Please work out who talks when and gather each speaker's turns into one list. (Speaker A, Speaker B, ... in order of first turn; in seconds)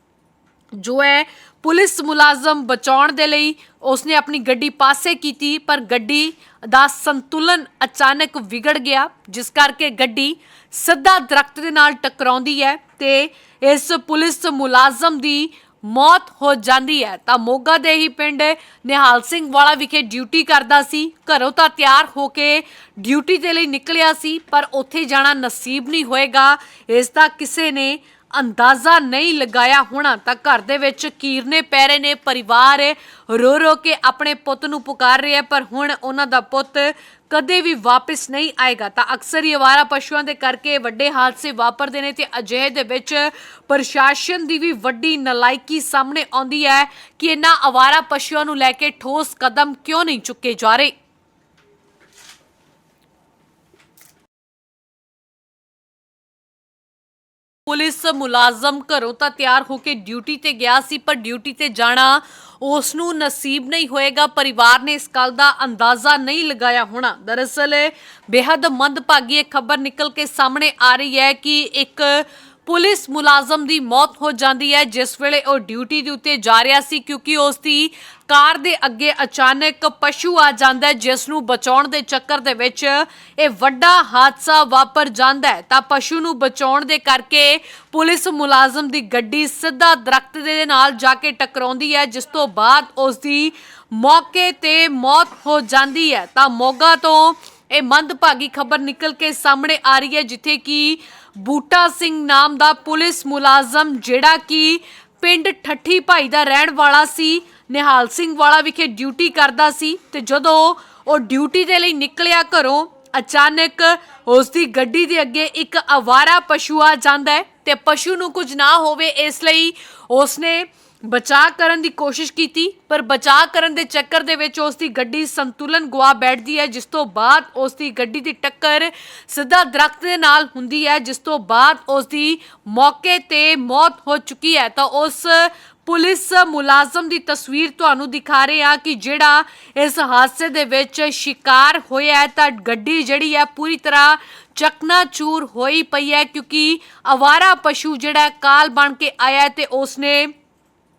Speaker A: 0.8-50.9, 57.6-150.3